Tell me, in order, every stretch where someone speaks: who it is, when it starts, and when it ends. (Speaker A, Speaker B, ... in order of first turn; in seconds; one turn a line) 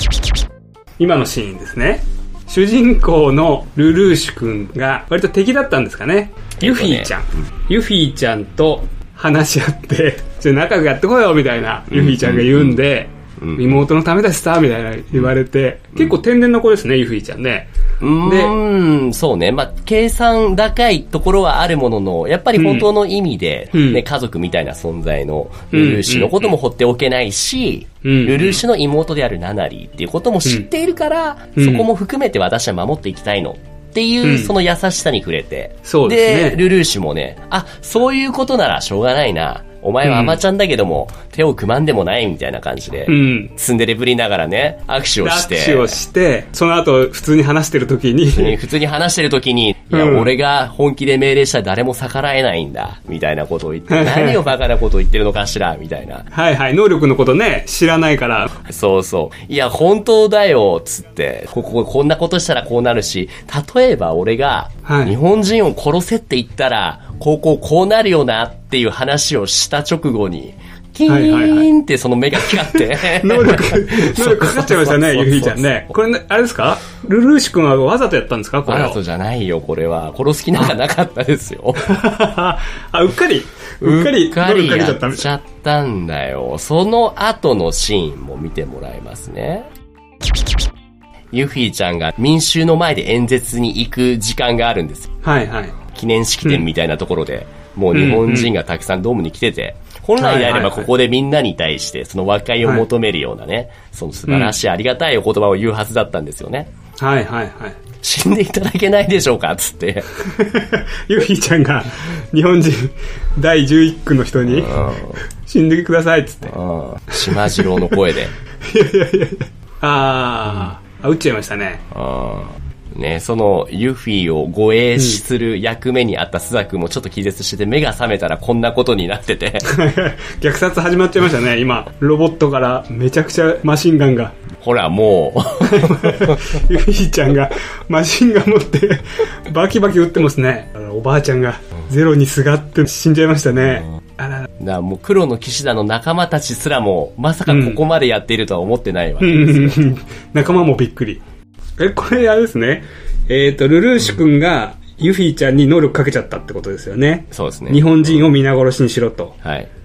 Speaker A: 1.0-17.7
Speaker B: 6.6-7.1
Speaker B: 11.9-12.8
Speaker B: 13.4-13.8
Speaker B: 18.0-46.0
Speaker A: 18.2-18.6
Speaker A: 22.6-22.9
Speaker A: 23.7-24.0
Speaker A: 25.7-26.6
Speaker A: 28.0-28.6
Speaker A: 31.6-31.9
Speaker A: 34.2-34.5
Speaker A: 35.8-36.6
Speaker A: 40.0-40.4
Speaker A: 43.1-43.5
Speaker A: 45.2-48.6
Speaker B: 48.3-56.3
Speaker A: 49.9-50.3
Speaker A: 53.9-54.4
Speaker A: 56.3-58.5
Speaker B: 58.5-75.9
Speaker A: 64.8-65.1
Speaker A: 71.1-71.7
Speaker A: 72.5-79.0
Speaker B: 78.7-81.9
Speaker A: 81.8-85.3
Speaker B: 83.8-89.7
Speaker B: 91.3-95.2
Speaker A: 95.2-95.7
Speaker B: 95.9-106.7
Speaker A: 97.9-98.5
Speaker A: 100.2-100.9
Speaker A: 104.3-104.5
Speaker A: 107.0-107.8
Speaker B: 108.0-110.1
Speaker A: 110.2-116.5
Speaker B: 114.5-115.2
Speaker B: 116.5-118.3
Speaker A: 117.1-118.0
Speaker A: 118.6-121.8
Speaker B: 121.9-129.8
Speaker A: 125.0-125.2
Speaker A: 129.6-134.4
Speaker B: 134.6-136.6
Speaker A: 135.6-144.4
Speaker B: 144.6-149.8
Speaker A: 147.5-147.8
Speaker A: 149.2-151.2
Speaker A: 151.8-159.3
Speaker B: 157.3-158.3
Speaker B: 159.4-159.7